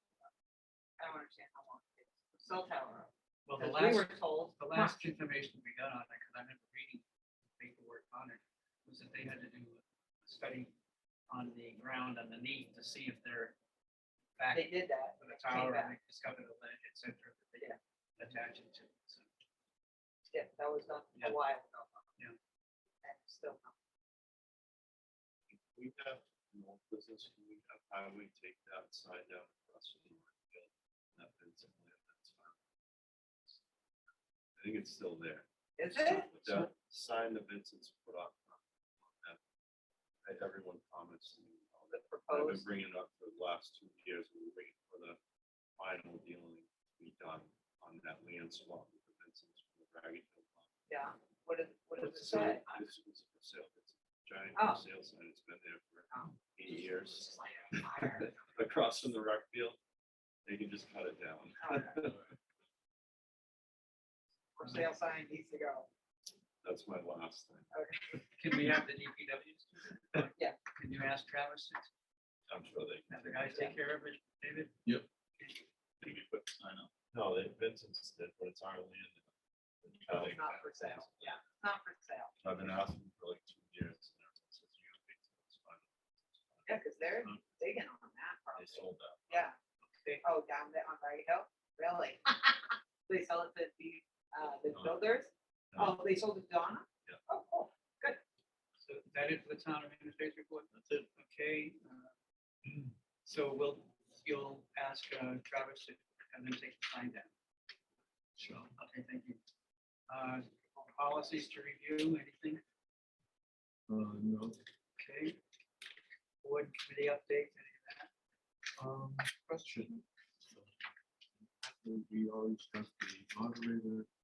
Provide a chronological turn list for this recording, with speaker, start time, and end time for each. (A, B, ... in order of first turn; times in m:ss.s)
0:01.0-0:05.0 A
0:03.4-0:07.0 B
0:07.6-0:10.7 B
0:11.3-0:13.5 B
0:14.4-0:19.3 B
0:14.5-0:15.9 A
0:20.3-0:22.0 A
0:23.0-0:23.7 A
0:25.5-0:32.6 C
0:34.6-0:35.5 C
0:35.8-0:36.3 A
0:35.9-0:36.7 B
0:36.1-0:39.4 C
0:40.2-0:45.2 C
0:41.9-0:42.7 A
0:45.8-0:50.7 C
0:50.9-0:52.8 A
0:52.0-0:59.8 C
0:54.6-0:54.8 A
0:56.1-0:58.5 A
1:00.4-1:02.3 C
1:01.6-1:02.1 A
1:04.6-1:05.9 A
1:06.6-1:07.7 C
1:07.7-1:08.2 A
1:08.3-1:11.9 B
1:12.5-1:13.3 C
1:13.1-1:14.8 B
1:15.4-1:15.6 B
1:16.0-1:19.3 C
1:19.8-1:21.4 C
1:20.0-1:22.3 A
1:22.4-1:27.4 C
1:26.6-1:29.6 A
1:28.5-1:29.5 C
1:29.9-1:30.2 B
1:30.2-1:38.2 A
1:34.7-1:35.0 C
1:35.7-1:36.0 C
1:38.8-1:42.1 B
1:40.7-1:41.0 C
1:43.2-1:47.3 B
1:48.4-1:49.4 B
1:50.1-1:52.6 B
1:53.9-1:54.6 D
1:55.0-1:55.4 B
1:56.4-1:58.1 B
1:58.8-2:04.1 D